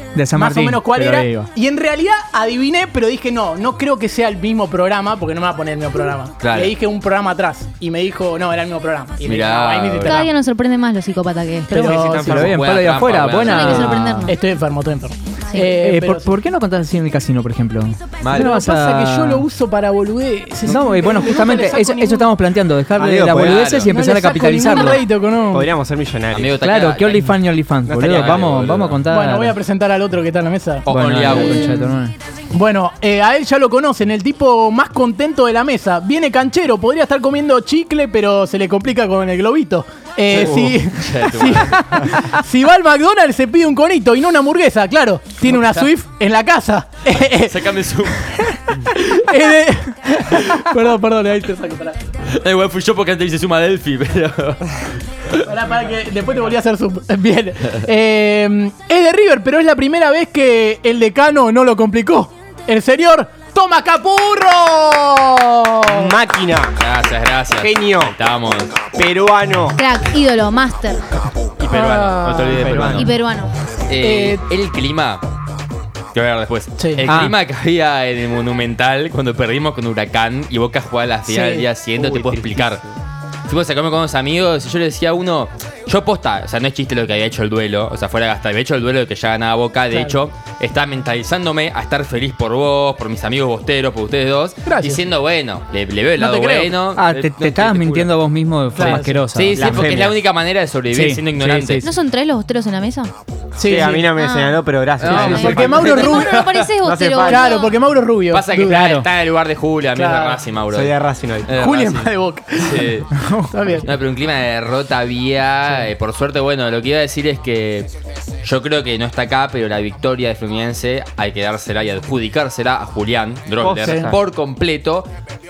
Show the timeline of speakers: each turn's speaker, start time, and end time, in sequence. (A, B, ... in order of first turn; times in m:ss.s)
0:00.2-0:01.5 A
0:00.3-0:10.3 B
0:06.4-0:06.7 C
0:09.2-0:10.2 C
0:10.0-0:11.9 D
0:11.7-0:12.5 B
0:11.7-0:12.6 E
0:11.9-0:14.3 A
0:12.2-0:13.9 C
0:13.4-0:14.4 D
0:14.2-0:16.3 B
0:15.6-0:19.5 A
0:18.2-0:18.5 C
0:18.3-0:22.3 B
0:20.7-0:25.0 A
0:23.0-0:23.9 E
0:23.4-0:23.9 C
0:23.9-0:25.7 B
0:25.5-0:26.6 E
0:26.3-0:27.4 C
0:26.6-0:29.6 A
0:27.9-0:28.8 E
0:28.1-0:29.0 C
0:29.1-0:31.7 B
0:30.9-0:31.8 C
0:30.9-0:32.1 A
0:32.5-0:47.5 B
0:40.3-0:40.7 E
0:40.9-0:42.0 C
0:45.5-0:45.9 C
0:47.2-0:48.5 C
0:48.3-0:52.0 B
0:52.3-0:54.7 C
0:55.4-1:06.1 B
1:05.9-1:06.8 E
1:06.8-1:08.8 C
1:07.6-1:08.2 E
1:08.9-1:09.8 E
1:09.8-1:11.0 D
1:11.6-1:13.1 C
1:11.7-1:12.9 B
1:12.4-1:13.1 E
1:12.9-1:13.5 D
1:13.9-1:15.2 C
1:14.0-1:14.4 B
1:16.1-1:22.8 C
1:16.8-1:17.0 B
1:17.0-1:17.4 A
1:21.3-1:21.7 B
1:22.0-1:22.9 E
1:23.5-1:38.1 C
1:29.9-1:30.2 B
1:34.7-1:35.0 B
1:36.2-1:36.7 B
1:37.0-1:39.9 A
1:38.8-1:39.2 B
1:38.8-1:41.8 C
1:39.5-1:40.2 E
1:40.9-1:41.9 A
1:41.8-1:43.1 D
1:43.6-1:44.1 B
1:43.6-1:47.5 E
1:44.1-1:44.6 D
1:45.0-1:46.4 C
1:45.0-1:46.4 B
1:45.1-1:47.8 D
1:47.2-1:48.9 B
1:48.3-1:51.0 C
1:48.7-1:49.0 A
1:50.0-1:50.4 B
1:50.7-1:51.5 E
1:51.5-1:53.1 C
1:51.5-1:52.9 B
1:53.2-1:53.5 A
1:53.5-1:53.9 B
1:53.8-1:57.9 C
1:58.4-2:05.1 C
2:03.6-2:04.2 E
2:03.8-2:04.1 B